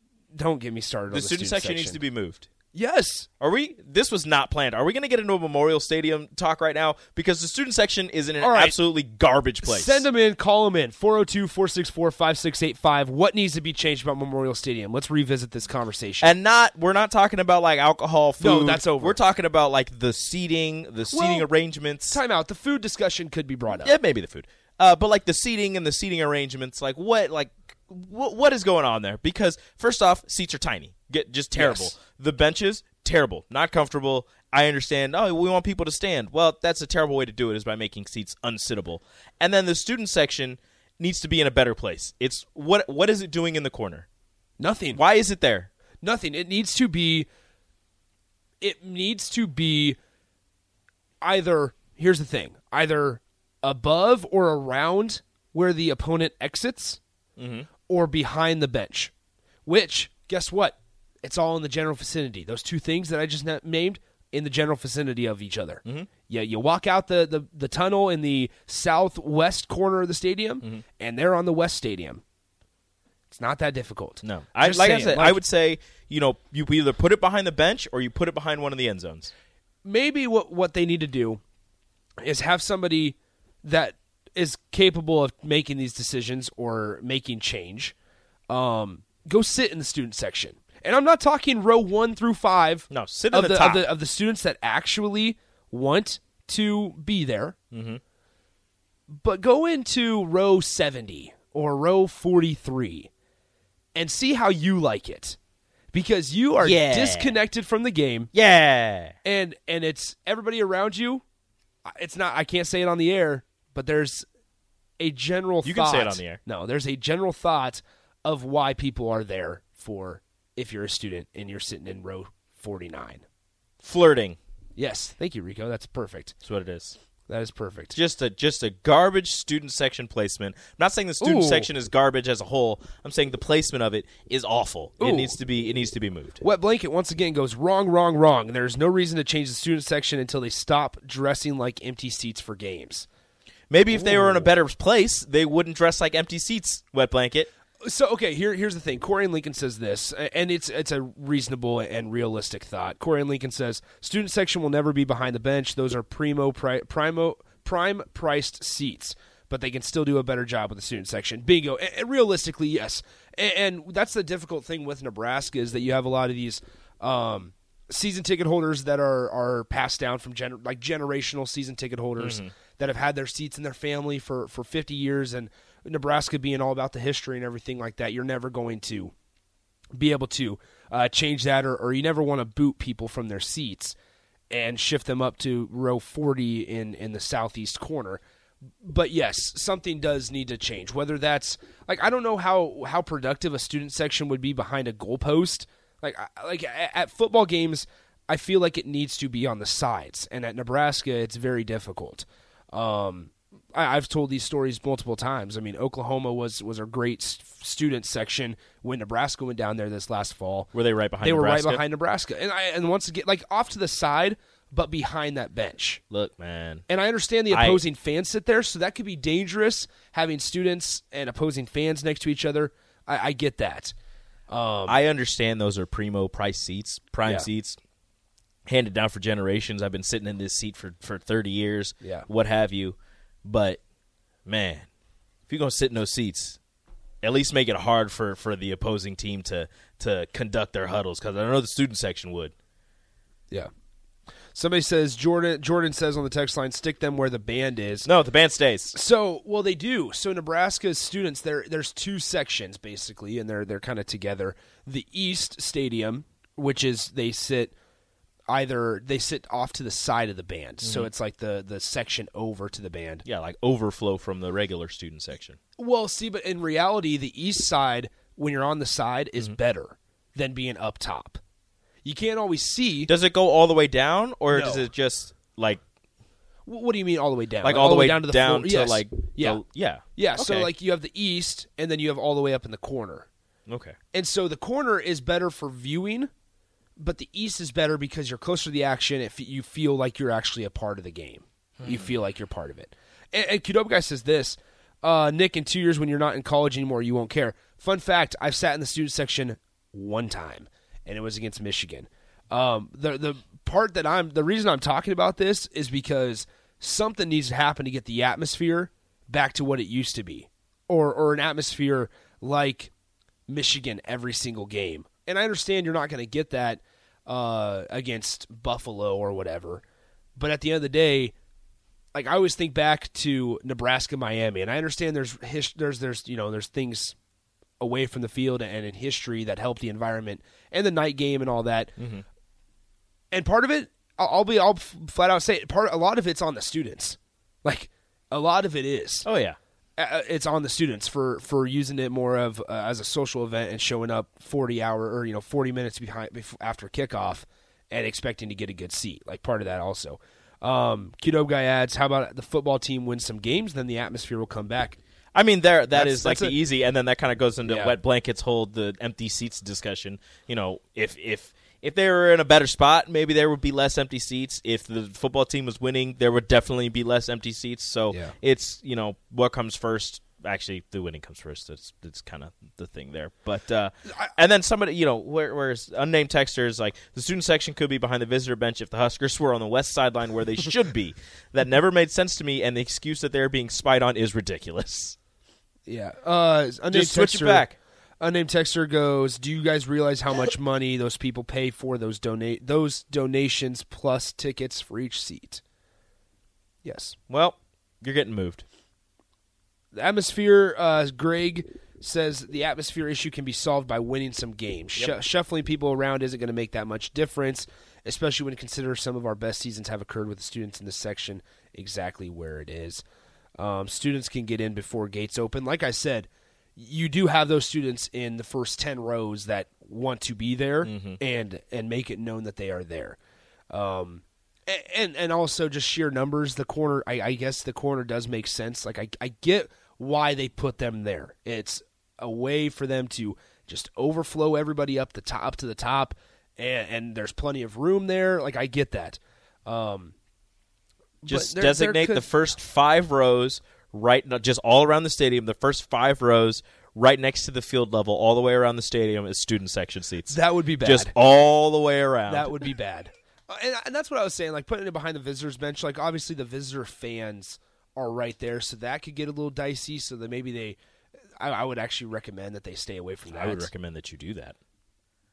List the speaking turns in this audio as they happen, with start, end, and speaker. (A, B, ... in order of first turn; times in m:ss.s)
0:00.3-0:02.0 A
0:01.1-0:02.5 B
0:02.7-0:03.3 A
0:03.4-0:10.1 B
0:08.4-0:08.8 A
0:09.6-0:16.3 A
0:16.2-0:22.2 B
0:18.4-0:19.2 A
0:21.1-0:21.5 A
0:22.1-0:24.0 A
0:23.8-0:44.0 B
0:31.5-0:31.9 A
0:44.6-0:45.0 A
0:44.9-0:45.7 B
0:46.0-0:47.3 A
0:48.6-0:50.0 A
0:51.2-0:57.0 A
0:57.4-0:57.7 B
0:57.8-0:59.1 A
0:59.6-1:12.2 A
1:05.8-1:06.1 B
1:13.3-1:15.4 A
1:14.2-1:19.3 B
1:19.8-1:21.4 A
1:22.2-1:27.9 A
1:28.5-1:37.6 A
1:32.9-1:33.9 B
1:37.7-1:38.0 B
1:39.1-1:43.1 A
1:43.9-1:45.4 A
1:45.9-1:48.3 A
1:46.6-1:47.4 B
1:48.3-1:49.2 B
1:49.2-1:51.2 A
1:51.8-1:54.2 A
1:55.0-2:03.2 A
1:55.6-1:56.4 B
2:03.8-2:04.4 B
2:04.8-2:06.4 A
2:06.4-2:07.0 B
2:07.3-2:07.9 A
2:07.9-2:16.4 B
2:11.2-2:11.7 A
2:15.0-2:15.4 A
2:16.4-2:23.1 A
2:23.7-2:27.5 B
2:23.9-2:24.5 A
2:27.8-2:59.1 A
2:52.2-2:52.5 B
2:59.9-3:03.9 A
3:04.5-3:08.2 A
3:08.8-3:36.0 A
3:30.7-3:31.8 B
3:36.1-3:36.8 B
3:36.9-3:43.9 A
3:37.5-3:37.8 B
3:44.5-3:45.0 A
3:44.9-3:47.8 B
3:48.6-3:53.8 B
3:54.4-3:54.9 B
3:55.5-3:56.6 B
3:57.2-4:02.5 B
4:04.5-4:08.1 A
4:08.0-4:09.0 B
4:08.9-4:17.7 A
4:18.5-4:23.2 A
4:20.8-4:21.1 B
4:23.2-4:25.6 B
4:25.8-4:31.4 A
4:32.0-4:33.1 A
4:33.0-4:35.8 B
4:34.5-4:34.9 A
4:36.6-4:39.6 A
4:37.6-4:40.7 B
4:40.1-4:43.3 A
4:43.7-4:44.0 B
4:44.1-4:46.3 A
4:47.0-5:12.9 A
4:51.8-4:52.1 B
5:13.5-5:19.8 A
5:20.4-5:21.3 A
5:22.1-5:27.1 A
5:27.8-5:31.9 A
5:32.0-5:32.2 B
5:33.3-5:39.3 A
5:39.2-5:39.6 B
5:40.0-5:55.0 A
5:55.3-6:25.2 B
5:55.9-5:56.6 A
5:57.6-5:58.0 A
6:25.9-6:35.6 A
6:26.9-6:27.8 B
6:36.8-6:37.2 A
6:37.3-6:38.6 B
6:39.9-6:53.0 A
6:53.6-7:03.2 A
7:00.8-7:01.2 B
7:03.7-7:20.1 A
7:21.2-7:22.3 A
7:21.2-7:32.6 B
7:30.3-7:31.1 A
7:32.3-7:40.8 A
7:41.4-7:43.7 A
7:43.3-7:44.5 B